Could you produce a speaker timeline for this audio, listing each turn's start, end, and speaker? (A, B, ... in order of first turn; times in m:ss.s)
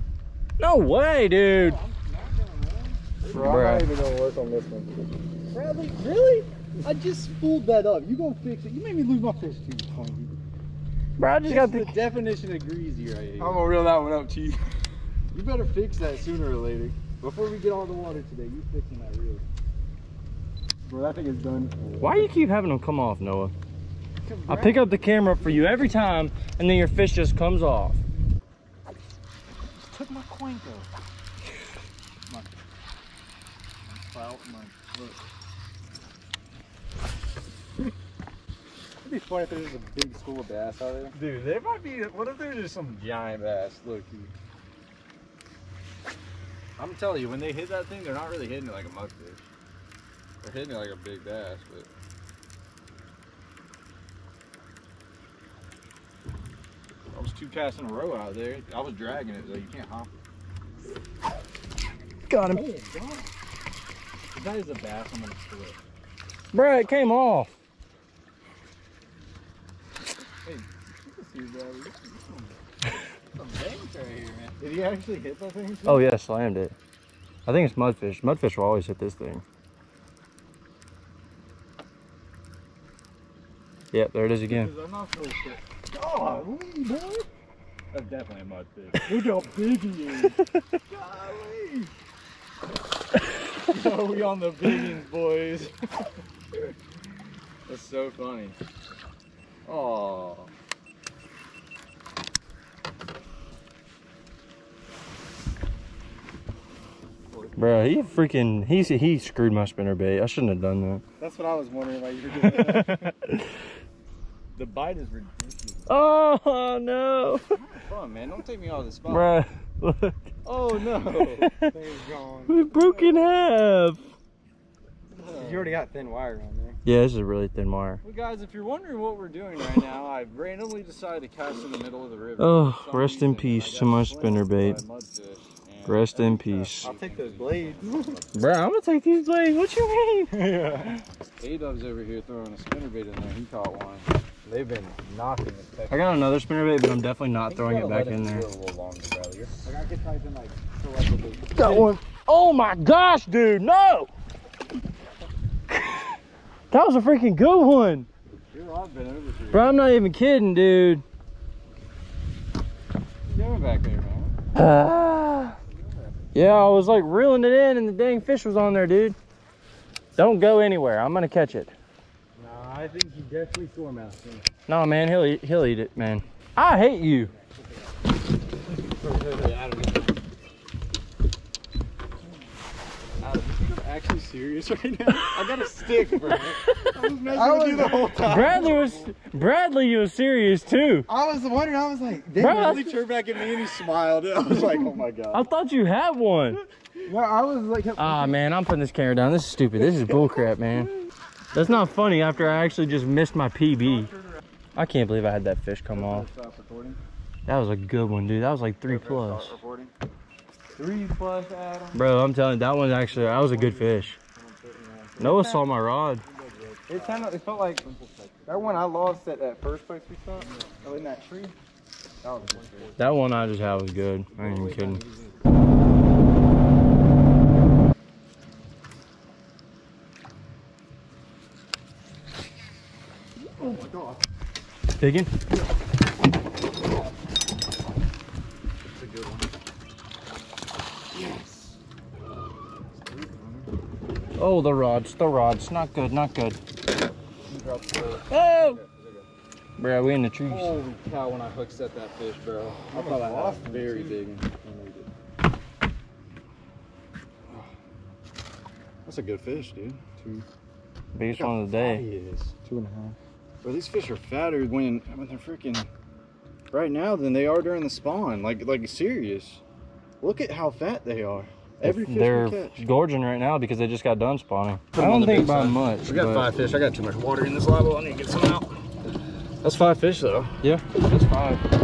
0:00.6-0:01.8 A
0:01.5-0:03.3 B
0:03.3-0:04.9 C
0:03.3-0:03.9 A
0:05.5-0:10.3 B
0:11.2-0:12.0 A
0:11.4-0:13.6 B
0:13.4-0:14.6 C
0:15.3-0:19.4 B
0:20.9-0:22.3 C
0:22.0-0:23.5 A
0:24.2-0:25.8 B
0:24.5-0:28.0 A
0:29.6-0:30.9 B
0:33.9-0:35.2 B
0:39.0-0:41.2 C
0:41.1-0:44.3 B
0:46.8-0:49.4 B
0:50.4-0:51.9 B
0:57.1-1:00.1 B
1:02.3-1:02.6 A
1:02.5-1:03.3 B
1:04.3-1:05.8 B
1:06.5-1:07.5 A
1:10.4-1:12.5 B
1:13.3-1:16.2 B
1:15.8-1:16.8 A
1:17.5-1:19.4 A
1:23.9-1:24.7 A
1:24.5-1:27.2 B
1:27.9-1:31.9 B
1:33.6-1:35.7 B
1:37.7-1:38.6 B
1:39.7-1:40.5 B
1:47.6-1:51.0 A
1:51.2-1:53.1 B
1:52.4-1:53.6 A
1:54.5-1:55.9 B
1:55.9-1:57.4 A
1:57.6-1:59.4 B
1:59.1-2:00.3 A
2:00.4-2:01.5 B
2:00.9-2:01.7 A
2:01.6-2:03.0 C
2:02.5-2:04.1 A
2:05.2-2:05.8 B
2:05.4-2:06.8 C
2:06.8-2:08.0 A
2:08.0-2:18.5 B
2:12.4-2:14.8 A
2:15.8-2:16.9 A
2:16.8-2:18.2 C
2:18.3-2:21.0 A
2:20.4-2:26.1 B
2:25.9-2:28.5 A
2:27.4-2:29.8 B
2:29.7-2:31.9 C
2:31.5-2:34.1 A
2:35.7-2:36.2 A
2:36.7-2:38.1 A
2:38.5-2:39.8 B
2:39.5-2:41.0 A
2:43.3-2:44.4 B
2:44.6-2:45.6 A
2:45.7-2:46.0 C
2:46.3-2:49.2 A
2:50.2-2:51.7 A
2:52.4-2:54.4 C
2:54.7-2:57.3 A
2:59.2-2:59.9 B
3:03.2-3:08.9 B
3:05.2-3:05.5 A
3:06.2-3:07.0 A
3:07.3-3:09.1 C
3:08.2-3:11.1 A
3:11.1-3:12.8 C
3:12.4-3:12.9 A
3:12.4-3:15.4 B
3:14.5-3:14.9 C
3:15.3-3:16.6 A
3:17.1-3:18.4 C
3:18.0-3:20.9 A
3:20.0-3:20.4 B
3:21.5-3:24.1 A
3:24.8-3:26.3 A
3:25.9-3:27.0 B
3:27.5-3:29.6 A
3:28.8-3:29.9 B
3:30.8-3:32.0 C
3:31.9-3:34.2 A
3:33.3-3:34.0 B
3:35.2-3:35.5 B
3:35.2-3:36.3 A
3:35.2-3:35.7 C
3:36.3-3:39.0 B
3:36.9-3:37.8 C
3:38.5-3:41.5 C
3:40.4-3:41.4 B
3:42.2-3:42.9 C
3:42.4-3:43.8 B
3:43.0-3:45.0 A
3:44.4-3:45.3 B
3:53.6-3:53.9 C
3:53.6-3:54.1 B
3:55.0-3:55.3 A
3:58.9-3:59.5 B
4:01.1-4:01.8 B
4:03.0-4:03.7 B
4:04.4-4:06.6 A
4:07.5-4:09.3 B
4:08.3-4:08.8 A
4:09.8-4:10.8 A
4:10.5-4:15.1 B
4:12.9-4:14.2 C
4:19.1-4:20.0 B
4:20.2-4:20.4 C
4:21.2-4:22.1 A
4:21.3-4:22.5 B
4:22.6-4:23.2 C
4:23.6-4:25.9 B
4:26.7-4:29.6 B
4:30.2-4:32.8 B
4:31.8-4:36.5 A
4:34.9-4:38.8 B
4:39.6-4:40.6 B
4:40.6-4:41.6 A